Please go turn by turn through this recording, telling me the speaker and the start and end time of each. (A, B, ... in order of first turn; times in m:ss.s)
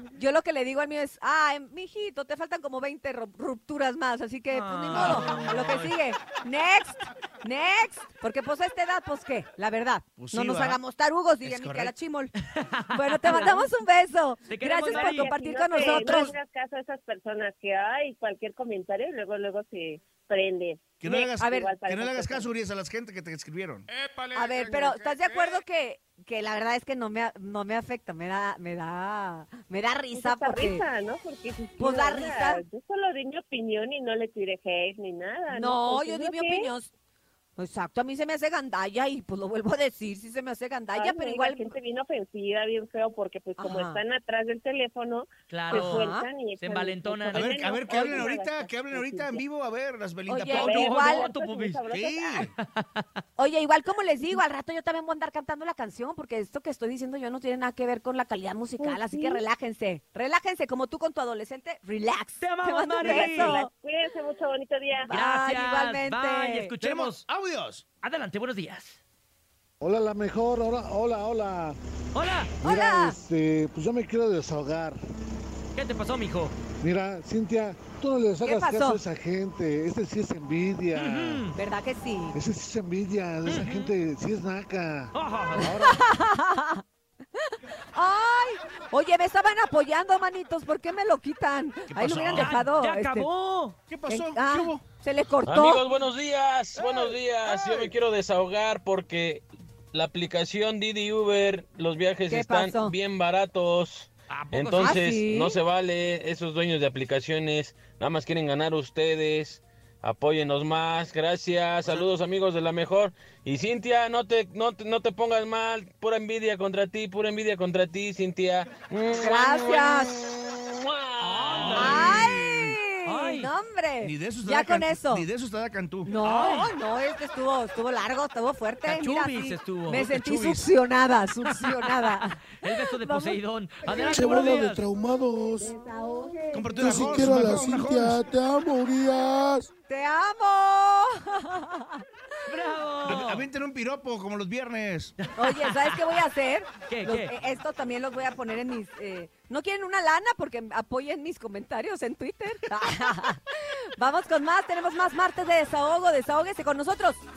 0:00.2-0:12.3 A
0:04.5-0:05.9 B
0:04.9-0:05.4 C
0:10.2-0:10.8 C
0:11.4-0:11.9 C
0:12.4-0:13.7 B
0:12.9-0:16.4 A
0:14.5-0:16.0 B
0:14.8-0:22.5 D
0:15.8-0:16.4 C
0:21.0-0:23.9 C
0:21.4-0:21.7 A
0:24.3-0:30.8 A
0:30.1-0:36.7 D
0:31.8-0:32.6 A
0:35.5-0:36.9 A
0:37.6-0:41.7 A
0:40.9-0:49.4 D
0:43.6-0:44.0 A
0:45.5-0:46.0 B
0:45.7-0:46.3 A
0:46.6-0:47.6 B
0:47.3-0:50.6 C
0:50.3-0:51.3 A
0:50.4-0:51.8 B
0:50.6-0:52.4 D
0:51.9-0:52.5 C
0:52.4-0:53.2 B
0:53.4-1:03.7 A
0:58.8-0:59.4 D
1:02.4-1:03.6 B
1:03.0-1:05.1 D
1:05.1-1:06.7 A
1:05.1-1:07.2 B
1:06.8-1:07.8 C
1:08.0-1:09.0 B
1:09.8-1:11.8 E
1:12.1-1:12.6 B
1:12.6-1:13.2 A
1:12.6-1:15.0 E
1:15.7-1:16.5 B
1:16.8-1:21.5 E
1:18.4-1:19.0 A
1:20.9-1:21.5 B
1:21.5-1:22.4 A
1:22.3-1:26.0 E
1:23.4-1:23.9 B
1:25.1-1:25.7 B
1:25.6-1:26.8 A
1:27.4-1:33.3 A
1:31.9-1:32.6 C
1:32.3-1:33.8 B
1:33.9-1:34.8 C
1:34.1-1:35.8 A
1:35.4-2:02.2 F
1:36.7-1:37.9 C
1:42.3-1:43.0 A
1:44.3-1:45.0 B
1:44.8-1:45.6 A
1:59.2-2:00.1 A
2:01.2-2:02.3 B
2:01.5-2:02.8 C
2:01.7-2:05.3 A
2:03.0-2:03.5 B
2:04.0-2:06.1 C
2:06.0-2:14.3 A
2:06.2-2:06.7 B
2:08.8-2:10.1 B
2:09.9-2:10.6 C
2:12.6-2:14.8 B
2:14.0-2:15.7 G
2:15.6-2:17.4 A
2:16.5-2:18.3 C
2:16.8-2:19.7 G
2:19.9-2:22.0 A
2:22.5-2:23.5 B
2:23.0-2:25.1 C
2:25.2-2:26.0 B
2:25.4-2:37.2 A
2:26.9-2:27.3 B